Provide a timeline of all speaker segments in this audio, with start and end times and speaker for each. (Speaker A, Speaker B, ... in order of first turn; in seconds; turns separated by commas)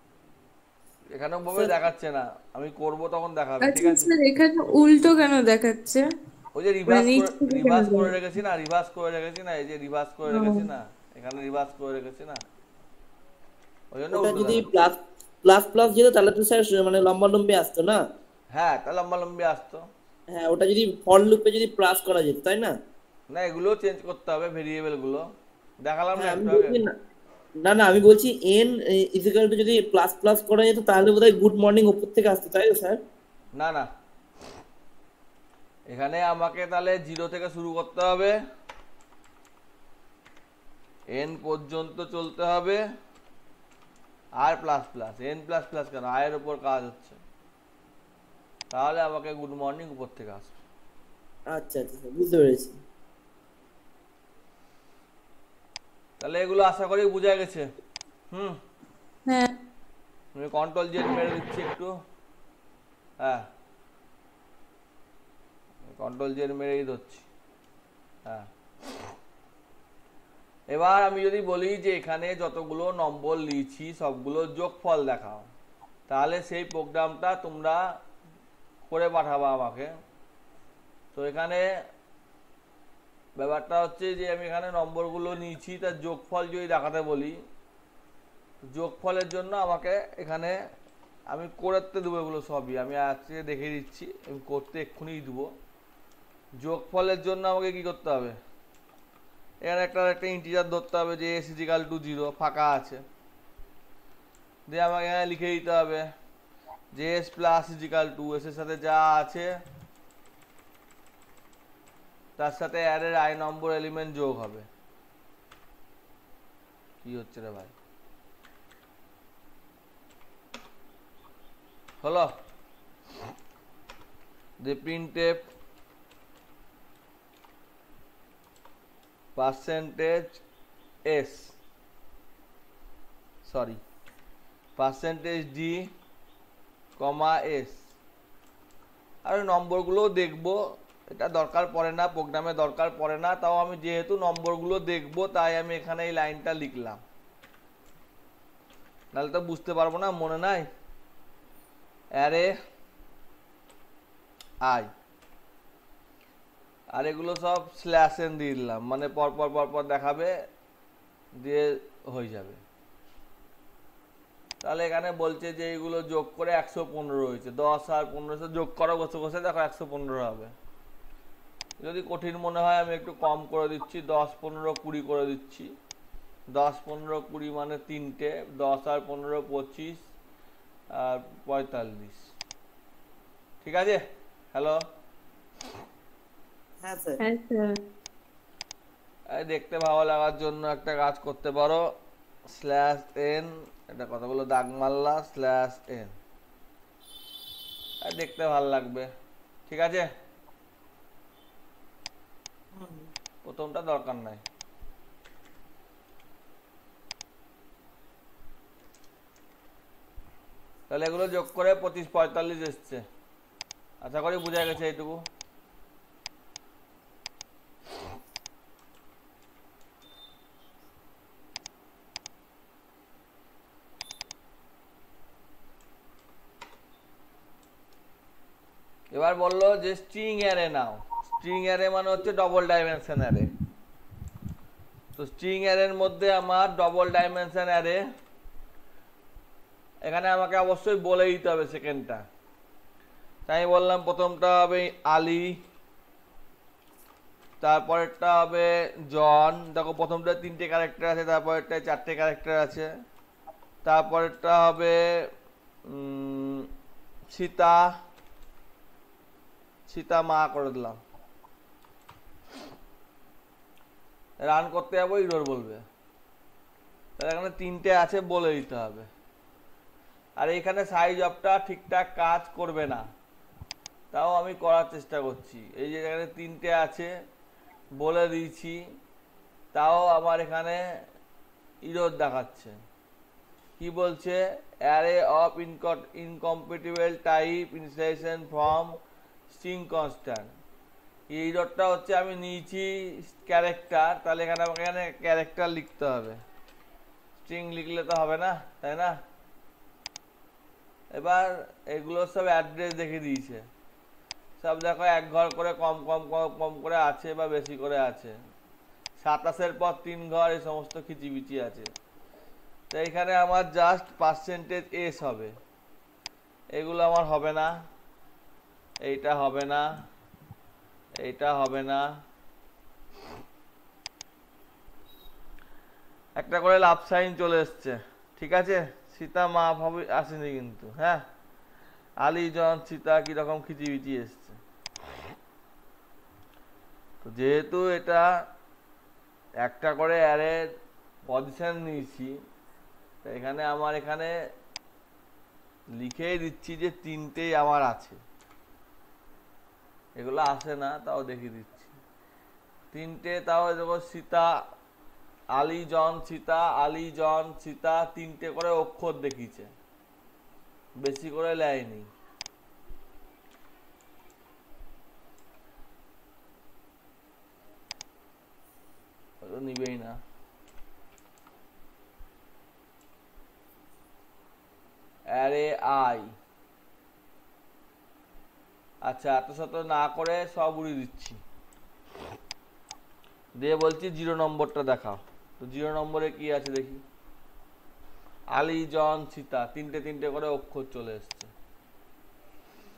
Speaker A: 1.1-4.1, Speaker B: 3.6-6.1, Speaker A: 6.5-12.4, Speaker B: 6.9-8.1, Speaker B: 10.3-10.7, Speaker A: 13.9-14.7, Speaker C: 14.1-18.0, Speaker A: 18.5-19.9, Speaker C: 20.3-22.7, Speaker A: 23.3-25.2, Speaker A: 25.8-26.8, Speaker C: 26.1-26.9, Speaker C: 27.6-33.0, Speaker A: 33.5-33.9, Speaker A: 35.9-38.4, Speaker A: 41.1-42.8, Speaker A: 44.4-47.2, Speaker A: 48.7-50.6, Speaker C: 51.5-52.8, Speaker A: 56.2-57.7, Speaker A: 58.3-58.6, Speaker A: 60.4-61.9, Speaker A: 65.9-67.2, Speaker A: 70.7-75.5, Speaker A: 76.1-77.8, Speaker A: 78.8-79.9, Speaker A: 81.1-81.7, Speaker A: 83.4-87.4, Speaker A: 88.7-90.5, Speaker A: 91.3-95.5, Speaker A: 96.6-98.3, Speaker A: 99.7-103.0, Speaker A: 104.7-106.0, Speaker A: 106.9-109.5, Speaker A: 112.4-114.7, Speaker A: 117.0-117.7, Speaker A: 122.0-122.3, Speaker A: 124.6-125.5, Speaker A: 129.3-130.4, Speaker A: 131.1-131.6, Speaker A: 133.4-133.8, Speaker A: 134.8-135.9, Speaker A: 137.0-137.8, Speaker A: 139.2-147.0, Speaker A: 149.1-150.7, Speaker A: 152.2-152.5, Speaker A: 154.6-154.9, Speaker A: 156.9-160.3, Speaker A: 161.4-162.6, Speaker A: 164.6-170.5, Speaker A: 171.8-175.7, Speaker A: 176.5-180.0, Speaker A: 180.9-182.2, Speaker A: 183.6-184.0, Speaker A: 184.5-184.8, Speaker C: 186.8-187.2, Speaker B: 187.2-187.8, Speaker A: 189.3-191.8, Speaker A: 192.5-196.1, Speaker A: 198.0-199.1, Speaker A: 199.7-200.1, Speaker C: 202.7-203.1, Speaker A: 203.4-204.4, Speaker A: 210.9-213.0, Speaker A: 214.0-215.2, Speaker A: 229.1-233.5, Speaker A: 235.2-238.0, Speaker A: 240.1-242.2, Speaker A: 243.5-245.5, Speaker A: 247.6-252.9, Speaker A: 253.8-255.0, Speaker A: 255.9-256.7, Speaker A: 257.3-257.9, Speaker A: 259.9-261.0, Speaker A: 264.4-265.8, Speaker A: 267.2-269.1, Speaker A: 270.4-273.0, Speaker A: 274.1-277.1, Speaker A: 278.0-278.8, Speaker A: 279.7-280.8, Speaker A: 281.9-282.7, Speaker A: 283.8-289.0, Speaker A: 289.5-290.5, Speaker A: 291.3-296.4, Speaker A: 297.4-299.1, Speaker A: 301.1-303.7, Speaker A: 304.6-308.3, Speaker A: 309.2-311.9, Speaker A: 312.9-315.5, Speaker A: 316.8-317.7, Speaker A: 319.0-319.9, Speaker A: 321.2-322.1, Speaker A: 326.4-331.2, Speaker A: 332.2-334.6, Speaker A: 337.2-338.3, Speaker A: 339.6-340.6, Speaker A: 341.3-342.4, Speaker A: 343.2-344.3, Speaker A: 346.0-348.2, Speaker A: 350.2-351.9, Speaker A: 352.9-354.5, Speaker A: 355.6-359.7, Speaker A: 361.0-362.1, Speaker A: 369.4-370.2, Speaker A: 375.3-376.3, Speaker A: 379.0-381.4, Speaker A: 383.6-387.0, Speaker A: 388.5-391.5